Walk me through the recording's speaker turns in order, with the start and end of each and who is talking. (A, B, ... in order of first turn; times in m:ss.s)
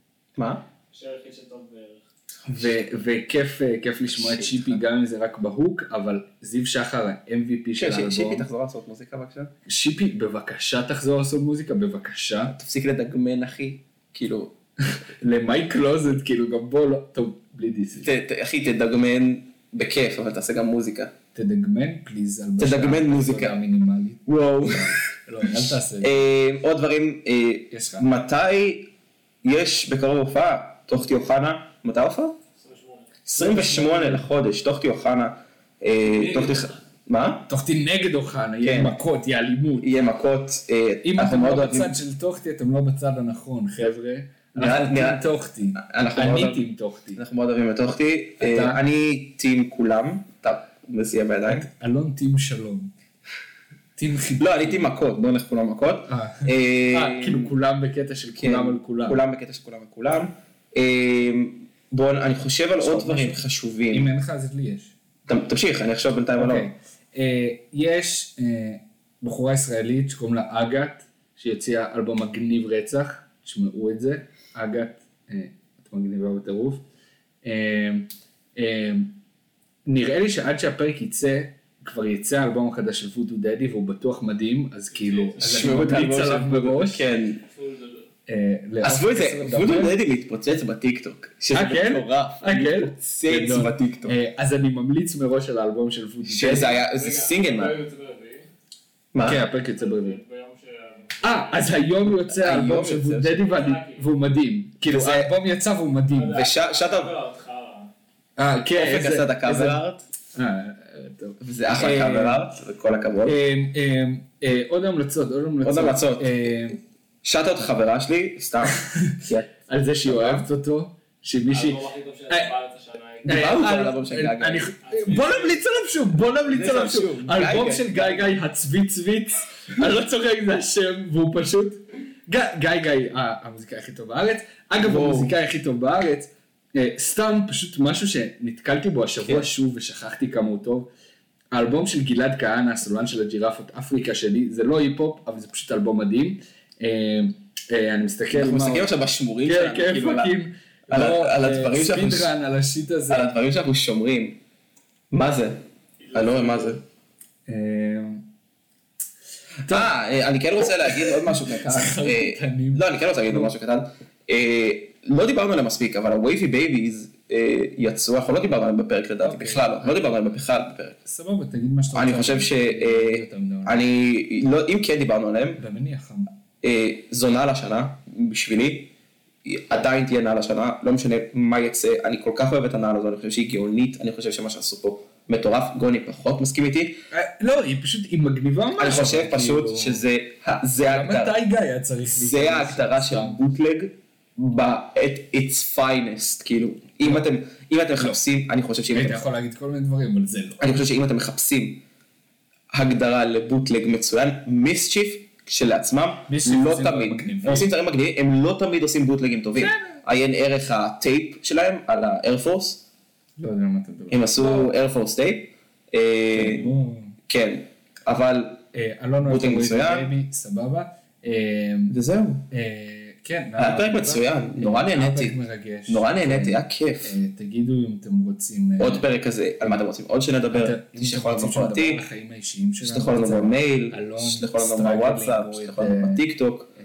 0:00.4-0:00.6 A
0:00.9-0:02.1 B
0:02.4-0:02.9 A
0:02.5-0:08.5 C
0:04.1-0:04.8 A
0:07.8-0:09.5 A
0:09.6-0:12.6 C
0:12.5-0:14.6 A
0:14.9-0:18.1 C
0:18.0-0:21.1 A
0:21.4-0:26.2 C
0:22.6-0:23.6 A
0:24.3-0:25.0 A
0:26.0-0:28.9 A
0:27.7-0:28.1 C
0:29.4-0:32.4 A
0:32.6-0:33.1 B
0:33.3-0:37.5 A
0:33.4-0:34.3 C
0:36.1-0:36.8 B
0:37.5-0:39.9 C
0:38.6-0:39.0 A
0:39.8-0:42.0 A
0:41.0-0:47.2 C
0:44.6-0:46.6 A
0:47.2-0:51.7 A
0:48.4-0:48.8 C
0:51.5-0:52.9 C
0:54.0-0:54.9 C
0:54.4-0:57.5 A
0:56.1-0:59.2 C
0:58.4-1:04.1 A
1:02.8-1:04.9 C
1:05.3-1:06.7 A
1:06.4-1:16.8 C
1:17.4-1:19.2 C
1:19.9-1:27.0 C
1:25.0-1:25.7 B
1:25.4-1:27.4 A
1:27.4-1:28.1 B
1:28.3-1:30.0 C
1:28.8-1:34.2 A
1:31.5-1:36.8 C
1:36.2-1:37.8 A
1:36.9-1:38.5 B
1:39.1-1:39.5 A
1:39.2-1:40.2 C
1:39.7-1:41.9 B
1:41.2-1:46.4 C
1:42.3-1:43.4 A
1:43.4-1:44.1 B
1:44.9-1:45.3 A
1:46.1-1:47.9 B
1:46.3-1:47.2 A
1:48.4-1:52.5 C
1:48.8-1:50.1 A
1:51.4-1:53.4 A
1:53.2-1:56.8 C
1:55.6-1:56.7 A
1:57.2-1:59.5 A
1:58.7-2:02.5 C
2:00.0-2:00.5 A
2:01.5-2:03.6 B
2:03.2-2:04.7 A
2:03.2-2:20.9 C
2:04.8-2:05.6 B
2:06.5-2:08.4 A
2:14.8-2:15.4 A
2:21.5-2:33.3 C
2:28.3-2:30.4 A
2:30.9-2:32.3 A
2:33.1-2:34.4 A
2:35.1-2:36.8 A
2:36.0-2:36.8 B
2:37.5-2:38.3 C
2:39.7-2:39.9 C
2:39.7-2:51.0 A
2:40.9-2:43.5 C
2:49.2-2:49.9 C
2:51.0-2:53.8 C
2:51.9-2:55.6 A
2:55.6-2:56.3 C
2:56.6-2:58.9 A
2:59.4-3:07.0 A
3:07.1-3:10.0 C
3:08.8-3:11.4 A
3:10.8-3:13.4 C
3:12.1-3:19.3 A
3:18.9-3:20.6 C
3:20.6-3:21.8 A
3:22.7-3:32.8 A
3:26.3-3:27.7 C
3:29.6-3:30.0 C
3:33.4-3:34.7 C
3:34.1-3:36.7 A
3:36.3-3:37.2 C
3:37.3-3:38.6 A
3:38.7-3:42.0 C
3:39.2-3:40.1 A
3:41.9-3:42.5 A
3:42.5-3:49.1 C
3:43.6-3:47.2 A
3:48.8-3:52.0 A
3:50.5-3:56.2 C
3:52.8-3:56.7 A